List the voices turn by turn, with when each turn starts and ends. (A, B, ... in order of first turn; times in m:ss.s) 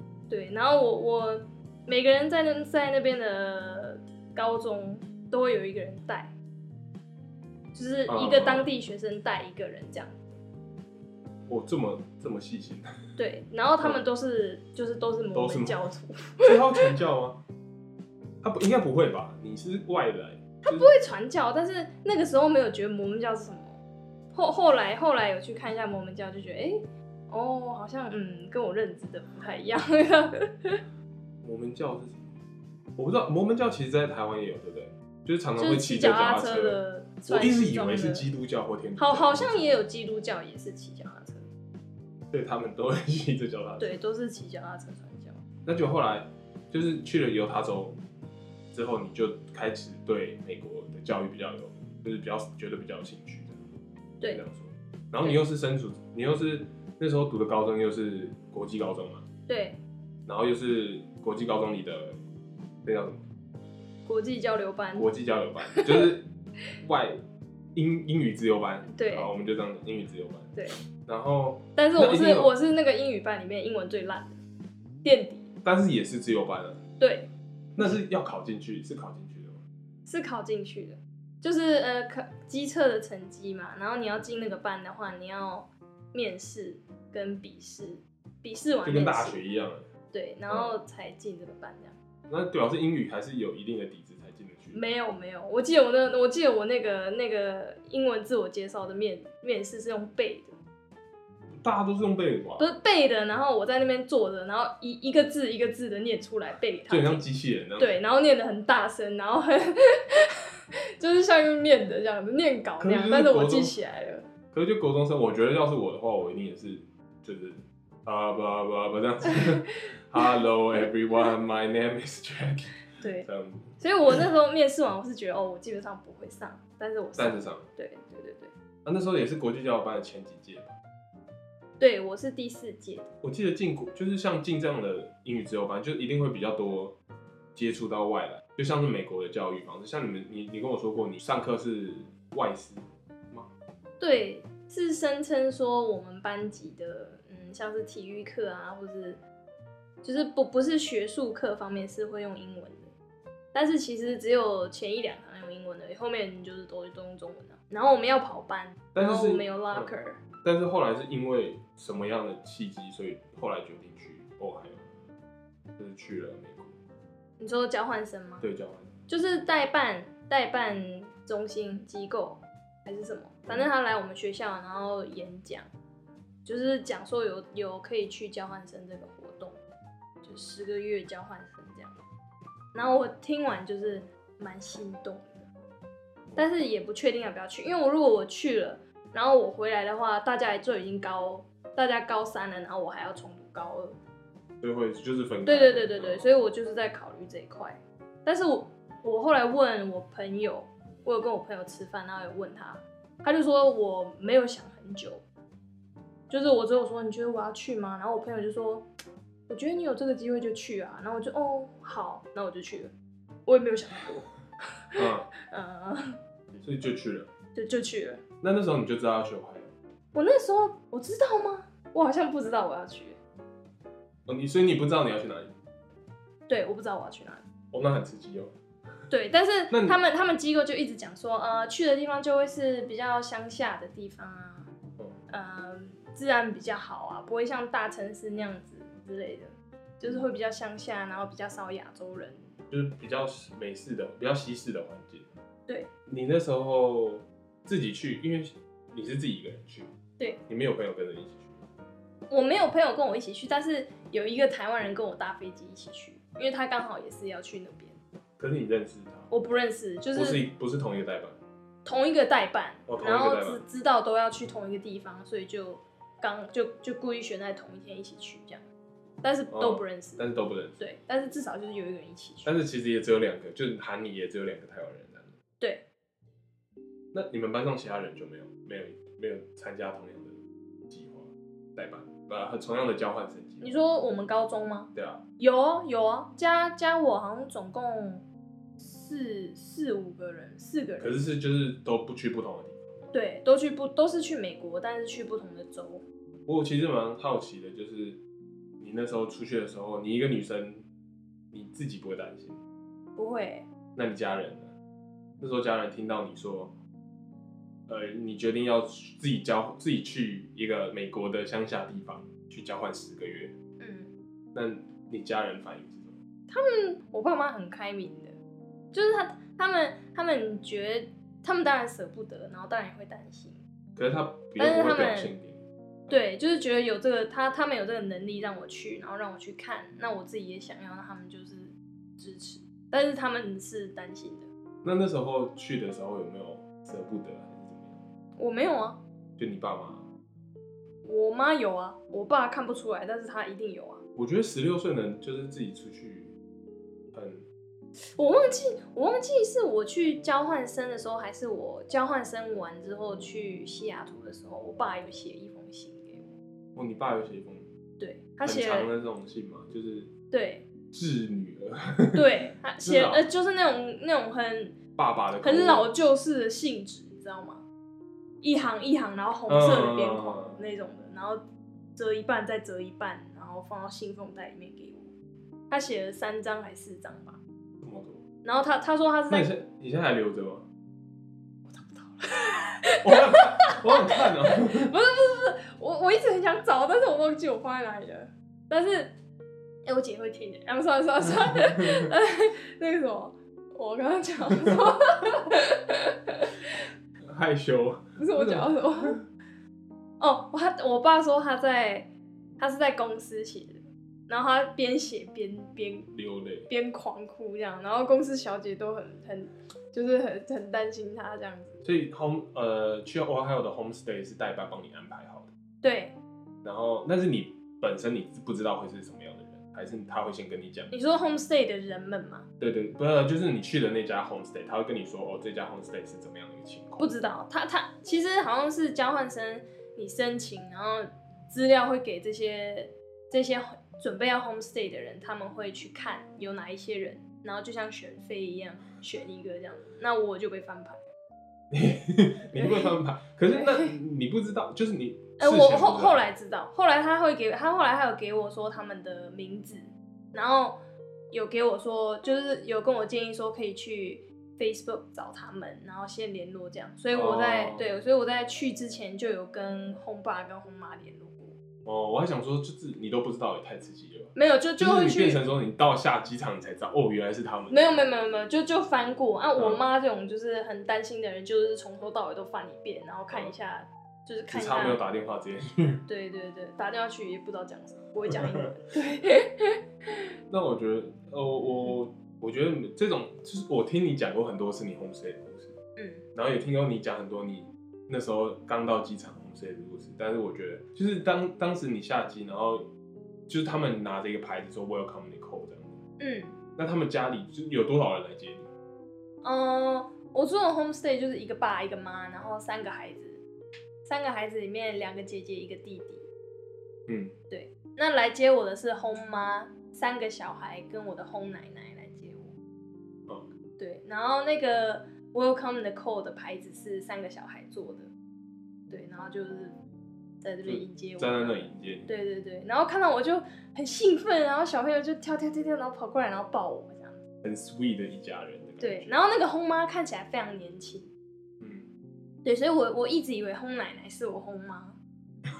0:00.3-0:06.3 A
0:07.7-0:10.4 A
0:08.1-0:08.7 B
0:11.5-0:12.9 B
0:13.2-0:17.0 A
0:15.3-0:15.8 B
0:16.4-0:17.4 B
0:18.4-0:20.9 B
0:20.6-0:23.8 A
0:24.3-0:30.8 A
0:31.4-0:32.3 B
0:33.0-0:39.8 B
0:35.6-0:38.3 A
0:39.0-0:41.5 A
0:42.3-0:44.0 B
0:43.8-0:45.4 A
0:45.6-0:48.0 B
0:48.7-0:53.6 B
0:54.2-0:59.2 B
0:59.5-0:59.8 A
1:00.2-1:02.2 B
1:02.8-1:03.2 B
1:04.0-1:05.1 A
1:05.0-1:06.3 B
1:05.8-1:06.1 A
1:06.8-1:07.2 B
1:07.7-1:10.5 B
1:08.9-1:09.3 A
1:10.5-1:10.8 A
1:11.0-1:12.5 B
1:11.8-1:14.4 A
1:15.0-1:15.5 A
1:15.6-1:16.8 B
1:17.0-1:17.3 A
1:17.8-1:19.6 B
1:20.0-1:29.4 A
1:28.8-1:29.9 B
1:30.1-1:32.0 A
1:30.5-1:30.7 B
1:32.3-1:34.8 B
1:34.7-1:40.5 A
1:41.6-1:42.7 B
1:42.6-1:47.2 A
1:46.9-1:48.0 B
1:47.8-1:50.3 A
1:51.0-1:54.3 A
1:52.8-1:53.7 B
1:54.5-2:03.8 B
2:03.0-2:03.3 A
2:03.8-2:08.5 A
2:07.2-2:07.6 B
2:08.8-2:10.7 B
2:11.8-2:13.1 A
2:13.2-2:17.0 B
2:17.5-2:23.5 B
2:24.0-2:29.2 A
2:30.0-2:32.9 A
2:33.5-2:40.2 A
2:38.9-2:44.9 B
2:45.8-2:46.8 B
2:47.4-2:48.4 A
2:48.4-2:48.9 B
2:49.1-2:55.7 A
2:56.4-2:59.6 A
3:00.2-3:02.0 A
3:02.7-3:05.5 A
3:06.4-3:14.0 A
3:14.6-3:16.3 B
3:15.4-3:25.2 A
3:26.3-3:28.8 A
3:29.5-3:32.9 A
3:33.4-3:34.3 A
3:35.0-3:35.3 B
3:35.0-3:36.2 A
3:36.6-3:37.3 B
3:37.5-3:38.2 A
3:38.4-3:39.7 B
3:40.1-3:43.2 A
3:44.3-3:45.5 B
3:46.5-3:47.4 A
3:47.7-3:48.5 B
3:49.1-3:54.7 A
3:49.7-3:50.0 B
3:55.3-4:02.5 A
4:02.7-4:05.3 B
4:06.1-4:09.9 B
4:10.5-4:11.6 B
4:12.3-4:18.0 A
4:18.4-4:19.3 B
4:19.3-4:20.4 A
4:20.1-4:21.4 B
4:21.8-4:28.6 A
4:22.9-4:23.6 B
4:29.2-4:30.2 A
4:29.5-4:30.8 B
4:30.8-4:32.6 A
4:32.4-4:35.3 B
4:35.6-4:35.8 A
4:37.1-4:40.4 B
4:40.9-4:43.8 B
4:43.6-4:48.2 A
4:44.9-4:45.2 B
4:48.8-4:51.2 A
4:51.0-4:53.0 B
4:53.1-4:56.0 A
4:56.5-4:58.2 B
4:58.8-5:00.8 B
5:01.5-5:02.6 B
5:03.2-5:03.6 A
5:04.0-5:04.7 B
5:05.4-5:06.7 B
5:07.9-5:13.5 B
5:13.8-5:14.1 A
5:14.5-5:16.2 B
5:16.5-5:18.4 A
5:18.9-5:23.6 A
5:24.0-5:25.6 B
5:24.6-5:25.3 A
5:26.1-5:34.5 A
5:34.8-5:38.0 B
5:38.4-5:39.0 A
5:39.4-5:40.0 B
5:41.0-5:44.0 A
5:44.2-5:46.3 B
5:47.1-5:47.4 B
5:48.2-5:56.3 A
5:56.8-5:57.7 B
5:58.0-5:58.9 A
5:58.4-6:00.1 B
6:00.3-6:00.7 A
6:00.9-6:02.2 B
6:02.1-6:04.8 A
6:02.8-6:03.2 B
6:05.0-6:05.9 B
6:05.4-6:07.6 A
6:08.4-6:11.4 A
6:09.5-6:10.6 B
6:12.0-6:15.1 A
6:15.7-6:17.4 A
6:17.8-6:18.2 B
6:18.4-6:19.5 A
6:19.3-6:20.6 B
6:21.7-6:29.1 A
6:23.0-6:24.9 B
6:29.8-6:36.7 A
6:31.7-6:32.1 B
6:37.2-6:39.2 B
6:38.2-6:39.2 A
6:40.2-6:46.1 A
6:46.1-6:46.7 B
6:46.7-6:51.8 A
6:51.8-6:55.5 B
6:55.8-6:56.2 A
6:56.6-7:00.9 B
7:00.9-7:02.4 A
7:02.6-7:07.1 B
7:07.0-7:21.1 A
7:21.7-7:26.2 B
7:22.5-7:23.9 A
7:25.4-7:30.8 A
7:31.3-7:41.6 A
7:37.1-7:37.9 B
7:41.8-7:48.0 B
7:44.3-7:45.4 A
7:47.7-7:55.0 A
7:49.6-7:49.8 B
7:54.5-7:56.0 B
7:56.1-7:59.8 A
8:00.5-8:05.7 B
8:06.0-8:06.2 A
8:06.3-8:12.9 B
8:13.5-8:16.0 B
8:16.2-8:16.6 A
8:16.8-8:18.7 B
8:19.4-8:23.4 A
8:24.0-8:26.3 A
8:27.1-8:27.3 B
8:27.5-8:32.5 A
8:33.8-8:38.1 A
8:38.9-8:39.8 A
8:40.4-8:47.2 A
8:40.6-8:42.1 B
8:47.4-8:49.1 B
8:48.8-8:51.1 A
8:51.6-8:51.9 B
8:52.4-8:55.0 A